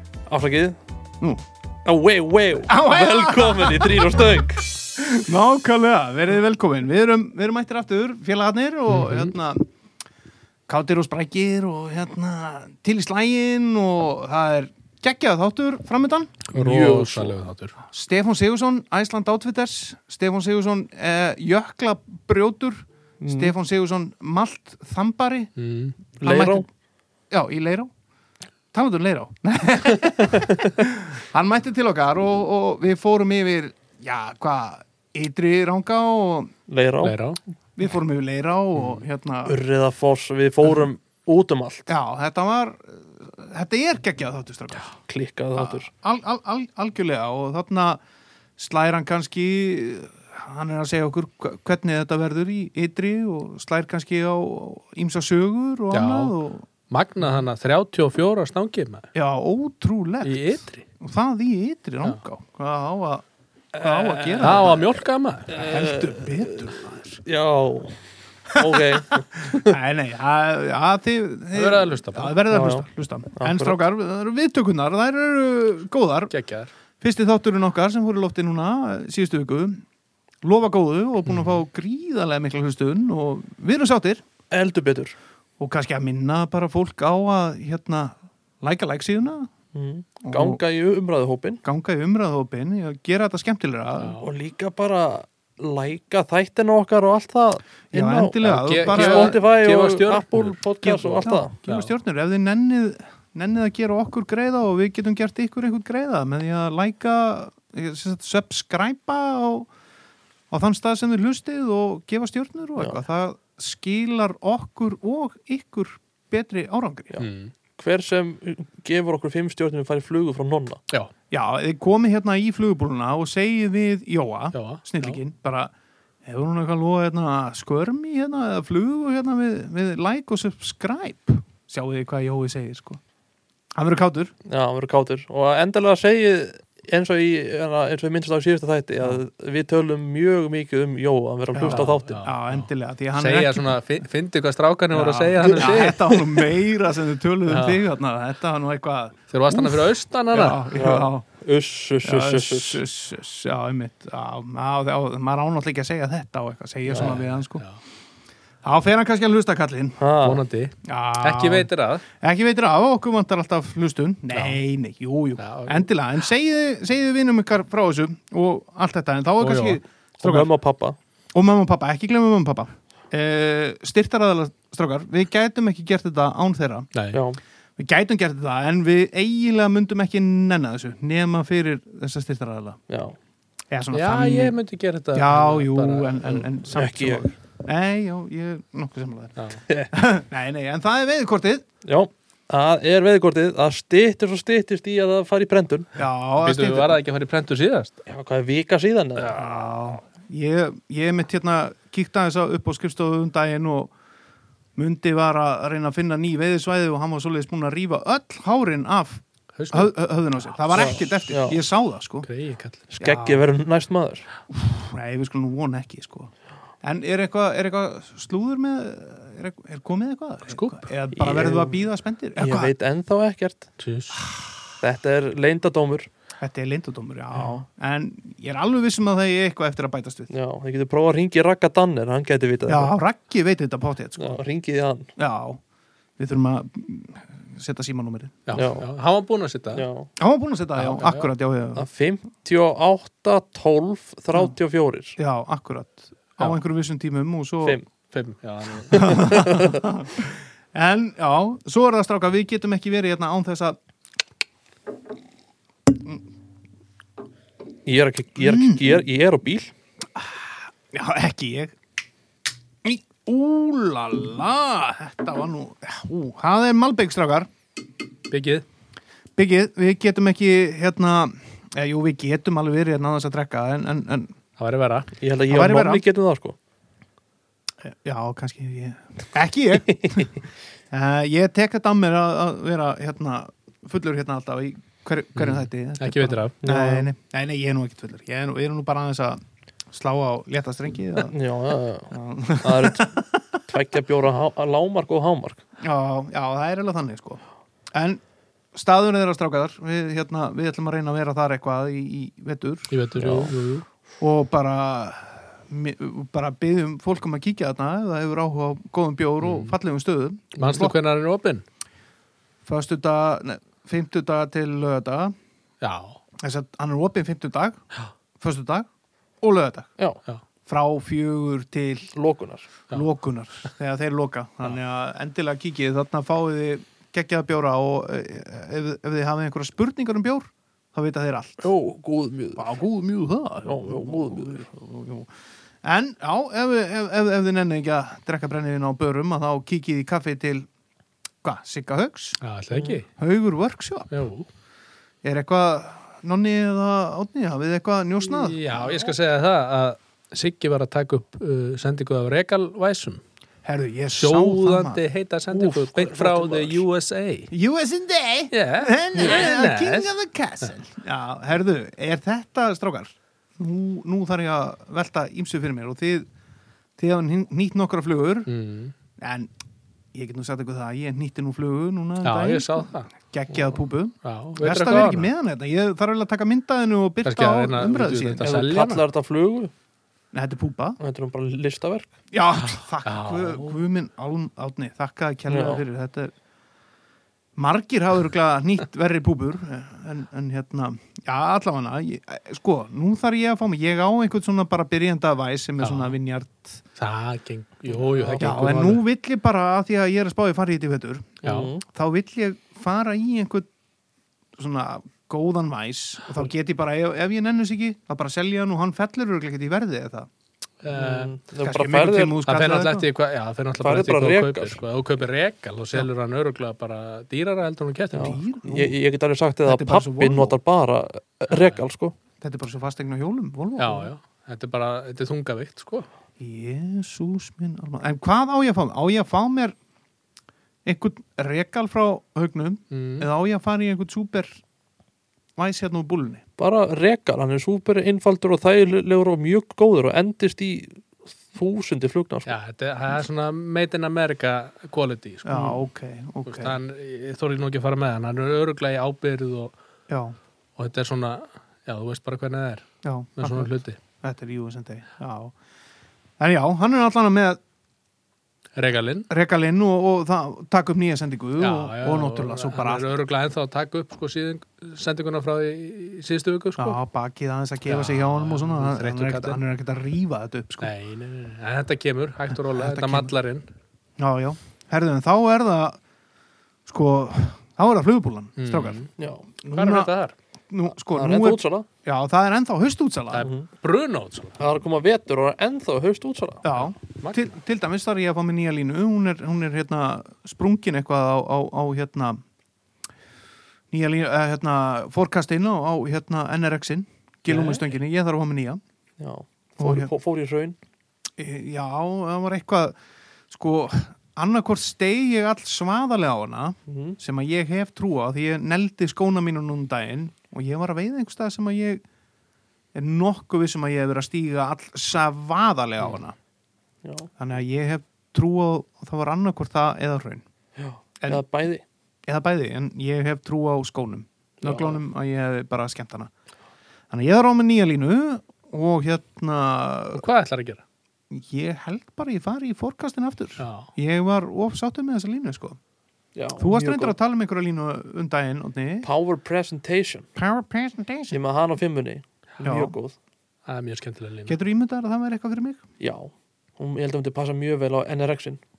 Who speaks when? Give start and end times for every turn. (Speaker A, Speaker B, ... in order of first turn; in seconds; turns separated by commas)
Speaker A: 0.3-0.8, Speaker A: 1.9-4.7, Speaker B: 2.6-4.2, Speaker B: 5.0-9.7, Speaker B: 10.7-16.5, Speaker C: 16.5-17.8, Speaker A: 16.6-17.4, Speaker B: 17.9-25.5, Speaker A: 23.2-23.5, Speaker C: 25.6-26.0, Speaker B: 26.2-26.7, Speaker A: 26.2-26.7, Speaker B: 27.3-27.9, Speaker B: 28.7-36.5, Speaker A: 30.3-30.6, Speaker A: 36.7-37.2, Speaker C: 37.0-37.4, Speaker B: 37.8-39.6, Speaker A: 38.8-41.9, Speaker B: 41.9-44.9, Speaker A: 45.0-45.9, Speaker B: 45.6-48.0, Speaker B: 48.6-56.7, Speaker C: 55.9-56.4, Speaker C: 56.9-59.1, Speaker B: 59.1-63.2, Speaker C: 60.2-60.9, Speaker A: 63.7-64.9, Speaker B: 63.8-64.9, Speaker C: 64.4-65.5, Speaker B: 65.5-67.2, Speaker A: 65.5-69.8, Speaker B: 68.5-76.3, Speaker C: 71.5-72.4, Speaker A: 72.5-72.9, Speaker A: 73.4-73.8, Speaker C: 76.3-76.7, Speaker B: 77.0-79.8, Speaker B: 80.4-84.2, Speaker C: 81.3-81.6, Speaker A: 84.5-85.2, Speaker B: 85.6-89.5, Speaker A: 89.7-91.6, Speaker B: 90.2-90.6, Speaker B: 91.6-94.2, Speaker C: 94.0-94.2, Speaker A: 94.2-101.5, Speaker B: 97.9-99.4, Speaker C: 98.4-100.5, Speaker B: 100.8-109.7, Speaker C: 101.7-101.9, Speaker B: 110.5-117.1, Speaker A: 117.1-120.8, Speaker C: 117.2-117.5, Speaker B: 121.3-125.7, Speaker C: 124.5-125.2, Speaker B: 126.2-133.0, Speaker B: 133.8-134.3, Speaker A: 134.5-142.2, Speaker B: 141.5-143.8, Speaker C: 141.7-146.0, Speaker B: 144.9-151.2, Speaker C: 147.5-147.8, Speaker C: 149.3-150.6, Speaker A: 150.7-152.8, Speaker B: 152.0-157.6, Speaker A: 156.9-157.1, Speaker C: 156.9-157.8, Speaker B: 158.6-160.0, Speaker A: 160.0-160.4, Speaker C: 160.2-162.1, Speaker B: 160.8-170.5, Speaker C: 164.3-164.6, Speaker C: 165.4-165.9, Speaker C: 169.4-169.8, Speaker A: 170.2-171.0, Speaker B: 171.3-176.9, Speaker C: 176.9-177.2, Speaker A: 177.1-177.4, Speaker B: 177.8-182.8, Speaker A: 182.9-183.2, Speaker B: 183.7-184.6, Speaker C: 183.9-186.5, Speaker B: 185.1-191.7, Speaker A: 186.7-187.2, Speaker A: 191.8-195.9, Speaker B: 196.0-197.0, Speaker C: 196.4-197.9, Speaker A: 198.1-199.7, Speaker B: 199.3-203.9, Speaker B: 204.8-212.3, Speaker C: 209.6-210.6, Speaker A: 210.7-211.6, Speaker C: 212.2-212.8, Speaker A: 212.9-214.3, Speaker B: 213.0-213.5, Speaker B: 214.5-216.3, Speaker B: 216.8-222.7, Speaker C: 220.5-220.9, Speaker A: 221.1-221.8, Speaker A: 222.4-223.7, Speaker C: 223.8-224.2, Speaker B: 224.1-224.7, Speaker A: 224.8-226.1, Speaker B: 226.4-230.3, Speaker A: 230.3-232.9, Speaker B: 232.7-234.4, Speaker A: 234.2-235.1, Speaker B: 235.2-235.6, Speaker B: 236.2-238.4, Speaker C: 238.5-239.8, Speaker A: 238.5-238.9, Speaker A: 239.8-240.1, Speaker B: 240.2-241.9, Speaker C: 240.8-241.3, Speaker A: 241.8-245.2, Speaker B: 245.2-247.8, Speaker C: 248.1-249.2, Speaker A: 248.9-249.8, Speaker B: 248.9-253.8, Speaker B: 255.9-256.2, Speaker A: 257.9-259.7, Speaker B: 258.4-258.9, Speaker B: 260.2-261.8, Speaker B: 262.8-267.5, Speaker C: 268.3-268.6, Speaker B: 269.4-274.3, Speaker C: 274.6-275.1, Speaker A: 275.2-276.6, Speaker B: 275.5-276.1, Speaker B: 277.8-280.4, Speaker B: 280.9-291.4, Speaker C: 285.4-286.6, Speaker A: 286.6-287.1, Speaker A: 291.2-293.1, Speaker B: 292.1-293.6, Speaker A: 293.7-295.6, Speaker B: 295.8-297.4, Speaker B: 297.9-298.2, Speaker B: 298.7-302.9, Speaker C: 302.9-303.9, Speaker A: 303.2-303.5, Speaker B: 304.2-310.9, Speaker C: 309.4-309.8, Speaker C: 310.6-311.6, Speaker B: 312.6-315.4, Speaker C: 315.8-316.2, Speaker B: 316.4-317.8, Speaker B: 318.4-318.9, Speaker B: 319.4-319.9, Speaker B: 320.7-322.1, Speaker A: 322.1-322.7, Speaker B: 322.9-331.7, Speaker A: 331.6-332.8, Speaker B: 332.6-335.3, Speaker A: 333.7-334.7, Speaker B: 335.8-340.7, Speaker B: 341.4-342.4, Speaker C: 342.4-343.1, Speaker A: 342.7-343.0, Speaker B: 343.2-344.1, Speaker C: 344.1-344.5, Speaker B: 345.2-349.1, Speaker C: 348.2-353.2, Speaker B: 353.6-355.0, Speaker C: 354.1-357.5, Speaker A: 355.5-356.8, Speaker B: 357.5-366.3, Speaker C: 358.5-360.8, Speaker A: 359.2-359.4, Speaker B: 367.0-368.5, Speaker C: 368.5-368.9, Speaker B: 369.2-369.5, Speaker B: 370.1-378.4, Speaker C: 372.2-375.3, Speaker C: 377.2-379.0, Speaker A: 378.4-379.7, Speaker B: 380.3-381.0, Speaker A: 381.0-382.1, Speaker B: 382.3-386.3, Speaker C: 383.0-383.8, Speaker A: 385.5-385.8, Speaker B: 387.6-396.8, Speaker C: 395.8-396.2, Speaker C: 397.0-399.0, Speaker A: 398.1-398.7, Speaker B: 398.4-403.7, Speaker C: 401.4-401.7, Speaker A: 401.4-401.8, Speaker B: 404.6-410.3, Speaker C: 410.8-411.3, Speaker A: 410.9-412.4, Speaker B: 411.6-413.1, Speaker C: 412.4-418.4, Speaker A: 413.8-414.8, Speaker A: 418.1-422.1, Speaker B: 418.1-419.0, Speaker B: 419.7-420.6, Speaker B: 422.4-424.1, Speaker C: 423.8-426.1, Speaker B: 426.4-429.8, Speaker B: 430.9-434.6, Speaker C: 432.9-433.3, Speaker B: 435.6-436.4, Speaker A: 436.6-442.5, Speaker C: 442.5-445.8, Speaker B: 445.4-446.8, Speaker C: 446.4-449.7, Speaker B: 450.1-450.4, Speaker C: 450.8-452.9, Speaker B: 453.0-455.6, Speaker C: 453.4-454.0, Speaker B: 456.4-457.6, Speaker C: 458.8-459.3, Speaker B: 459.3-463.1, Speaker C: 461.6-467.0, Speaker B: 466.8-470.9, Speaker C: 467.9-469.6, Speaker C: 470.8-473.7, Speaker B: 472.6-473.3, Speaker B: 474.2-476.0, Speaker B: 476.9-479.1, Speaker C: 478.6-479.1, Speaker A: 479.2-479.5, Speaker B: 479.6-480.1, Speaker C: 479.7-480.3, Speaker B: 480.7-483.5, Speaker A: 481.1-481.9, Speaker C: 483.3-484.6, Speaker A: 483.4-483.7, Speaker A: 484.6-486.7, Speaker B: 486.6-492.4, Speaker C: 487.2-487.5, Speaker B: 493.9-498.8, Speaker A: 497.5-497.8, Speaker A: 499.2-500.8, Speaker B: 499.8-500.1, Speaker B: 501.4-503.0, Speaker B: 503.5-512.0, Speaker A: 506.9-507.2, Speaker B: 512.9-516.4, Speaker A: 517.0-517.3, Speaker B: 517.4-520.4, Speaker A: 520.8-521.8, Speaker B: 522.3-526.3, Speaker A: 524.6-525.0, Speaker B: 527.1-530.2, Speaker C: 530.1-530.8, Speaker B: 531.3-535.8, Speaker C: 533.6-533.9, Speaker A: 536.4-537.2, Speaker B: 536.6-539.1, Speaker A: 539.0-540.3, Speaker B: 540.4-541.4, Speaker A: 541.3-543.1, Speaker B: 542.6-543.0, Speaker C: 543.7-544.6, Speaker B: 544.5-545.8, Speaker A: 546.0-548.6